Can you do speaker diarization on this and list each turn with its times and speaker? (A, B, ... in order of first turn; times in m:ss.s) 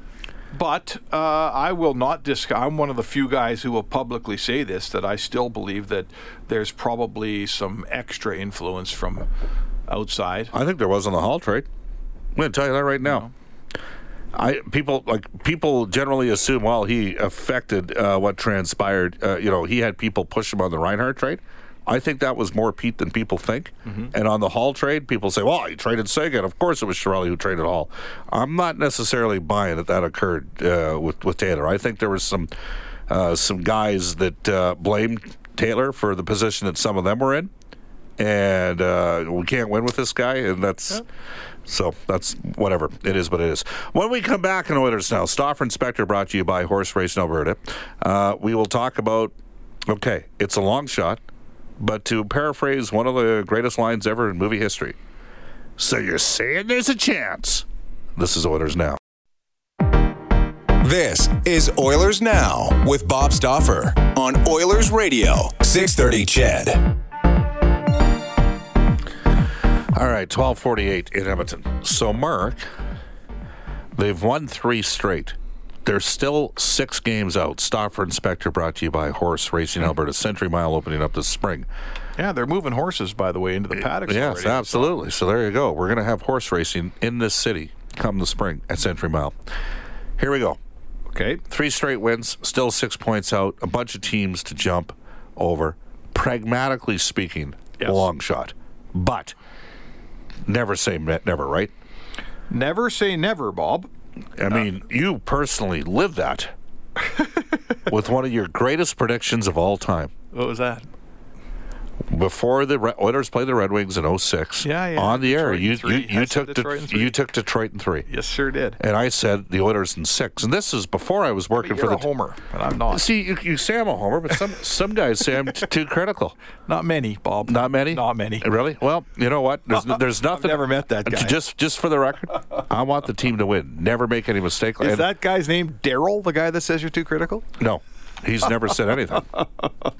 0:00.5-0:09.3 A
0:09.9-0:10.5 A
0:10.5-0:11.6 B
0:12.4-0:13.2 B
0:13.0-0:13.3 A
0:14.3-0:32.5 B
0:23.8-0:24.1 A
0:33.1-0:37.5 B
0:38.2-0:41.0 B
0:41.7-0:49.3 B
0:49.9-0:51.2 B
0:51.8-0:55.0 B
0:55.8-0:59.0 B
1:00.8-1:06.8 C
1:09.9-1:12.6 B
1:14.0-1:21.7 B
1:22.2-1:24.9 A
1:23.8-1:29.3 B
1:30.2-1:30.6 B
1:31.1-1:31.4 A
1:31.5-1:39.4 B
1:37.8-1:38.1 A
1:40.4-1:41.7 B
1:42.5-1:43.9 A
1:44.4-1:46.5 B
1:47.9-1:50.1 B
1:50.3-1:50.8 A
1:52.1-1:58.1 B
1:54.6-1:57.1 A
1:58.1-1:58.8 A
1:58.8-2:02.1 B
2:01.5-2:03.1 A
2:02.9-2:06.3 B
2:06.7-2:08.5 A
2:07.4-2:15.1 B
2:09.7-2:11.4 A
2:14.8-2:17.4 A
2:17.6-2:19.3 B